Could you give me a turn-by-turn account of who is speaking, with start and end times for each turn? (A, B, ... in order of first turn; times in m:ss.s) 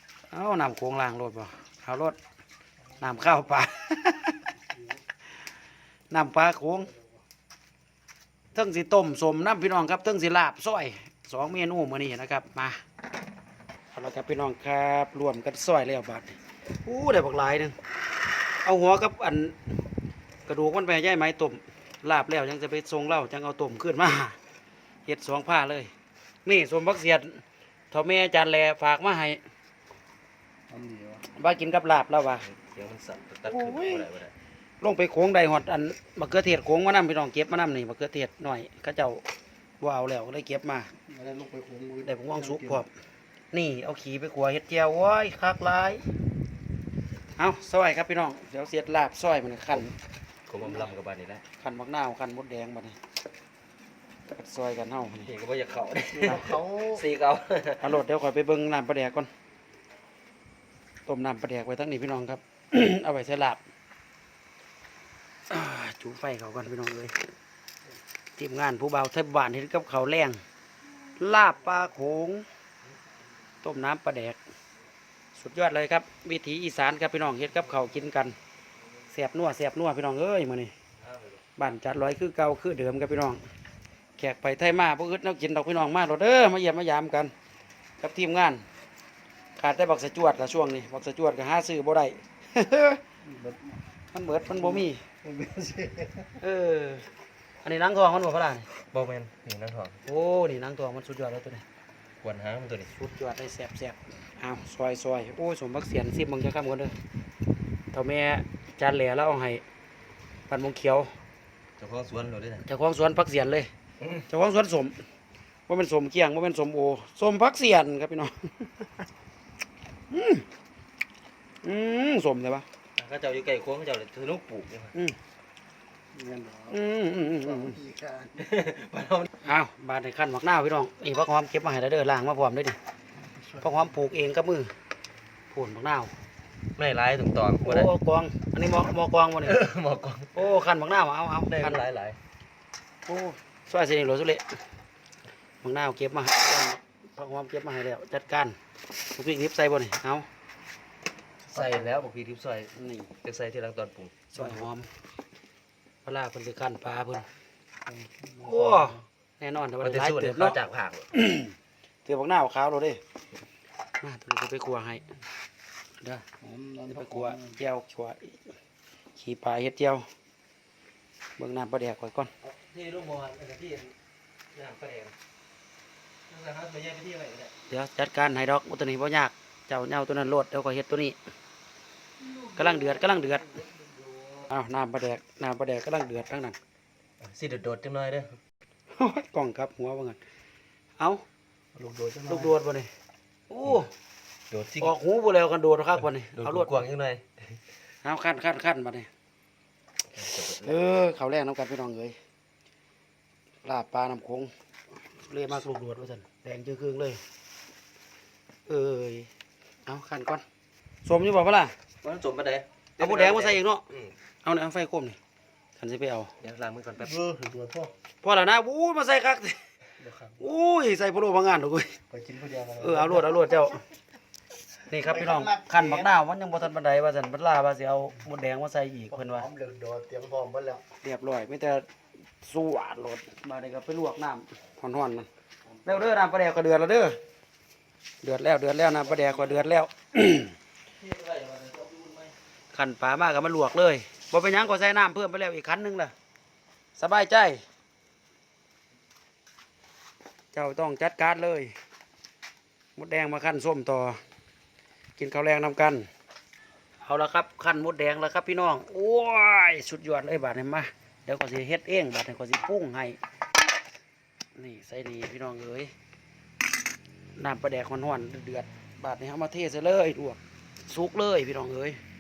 0:00.3-0:02.2 A
0:03.0-0:04.4 A
0:06.1-0:06.9 A
0:08.5-0:12.8 A
0:13.9-0:17.8 A
0:18.6-0:19.7 A
0:20.5-0:24.4 A
0:25.1-0:25.9 A
0:26.4-0:29.4 A
0:30.7-0:31.2 B
0:31.3-0:32.5 A
0:32.5-0:34.3 C
0:33.5-0:34.1 A
0:34.8-0:39.2 A
0:39.8-0:40.9 A
0:41.1-0:42.8 B
0:42.0-0:42.9 A
0:43.5-0:46.0 A
0:47.4-0:50.0 A
0:50.5-0:51.4 C
0:51.6-0:53.0 A
0:54.3-0:55.3 A
0:55.3-0:57.9 C
0:56.2-0:57.0 B
0:57.8-0:59.3 A
1:01.1-1:03.6 A
1:05.5-1:07.2 A
1:08.4-1:10.4 A
1:11.2-1:12.4 A
1:13.6-1:14.4 A
1:15.4-1:18.4 A
1:19.1-1:20.7 A
1:21.0-1:21.4 C
1:21.6-1:23.4 A
1:24.2-1:27.3 A
1:28.0-1:28.6 A
1:29.6-1:33.0 A
1:33.3-1:33.6 B
1:34.1-1:35.0 A
1:35.2-1:36.2 B
1:36.4-1:37.1 A
1:37.6-1:38.7 A
1:38.9-1:40.0 C
1:40.0-1:41.6 A
1:42.2-1:42.9 C
1:42.9-1:47.0 A
1:47.9-1:49.6 A
1:50.5-1:51.1 A
1:51.8-1:52.7 C
1:52.6-1:53.7 A
1:54.3-1:55.0 A
1:55.7-1:58.8 A
2:00.1-2:00.5 A
2:01.6-2:02.6 A
2:03.0-2:05.0 C
2:06.2-2:06.7 B
2:06.7-2:07.8 A
2:07.8-2:08.4 B
2:08.4-2:09.3 C
2:09.4-2:12.8 A
2:13.6-2:14.7 A
2:15.5-2:16.1 A
2:16.8-2:17.9 C
2:17.6-2:19.6 A
2:19.4-2:20.4 C
2:20.4-2:21.8 A
2:21.5-2:22.2 C
2:23.1-2:24.6 A
2:25.6-2:28.6 A
2:29.2-2:30.3 A
2:31.5-2:34.3 C
2:32.8-2:33.1 A
2:34.3-2:34.9 A
2:36.0-2:37.3 A
2:37.9-2:38.9 B
2:38.4-2:40.6 A
2:39.8-2:41.1 C
2:41.1-2:41.5 A
2:42.1-2:43.0 A
2:44.0-2:45.1 A
2:46.4-2:47.4 B
2:46.9-2:48.4 A
2:49.2-2:50.1 A
2:51.4-2:52.3 A
2:52.4-2:53.9 C
2:54.5-2:55.1 C
2:56.3-2:57.5 C
2:57.7-3:01.2 A
3:02.4-3:03.6 A
3:04.5-3:06.6 A
3:07.2-3:08.4 C
3:08.9-3:10.2 A
3:11.8-3:12.4 B
3:12.2-3:12.9 A
3:13.5-3:13.9 A
3:14.5-3:14.9 C
3:14.8-3:16.8 A
3:16.3-3:17.2 C
3:18.0-3:19.1 A
3:20.1-3:20.8 C
3:20.6-3:22.2 A
3:23.6-3:24.5 A
3:25.2-3:27.2 A
3:28.7-3:29.3 A
3:29.9-3:30.4 A
3:31.0-3:31.8 A
3:32.0-3:34.1 C
3:33.0-3:33.9 A
3:34.4-3:35.2 A
3:35.8-3:36.3 A
3:36.4-3:37.3 C
3:37.2-3:37.9 B
3:38.2-3:39.6 A
3:40.0-3:40.4 B
3:40.4-3:42.0 A
3:42.1-3:43.3 B
3:42.8-3:43.8 A
3:44.9-3:49.5 A
3:45.3-3:45.8 B
3:49.2-3:50.8 B
3:51.0-3:51.9 A
3:52.4-3:55.3 A
3:55.8-3:57.2 A
3:58.2-4:00.6 A
4:00.9-4:02.3 C
4:02.7-4:06.1 A
4:07.0-4:07.6 A
4:10.5-4:11.7 A
4:13.0-4:14.2 A
4:15.2-4:16.1 A
4:17.0-4:23.2 A
4:24.6-4:25.9 A
4:27.4-4:32.0 A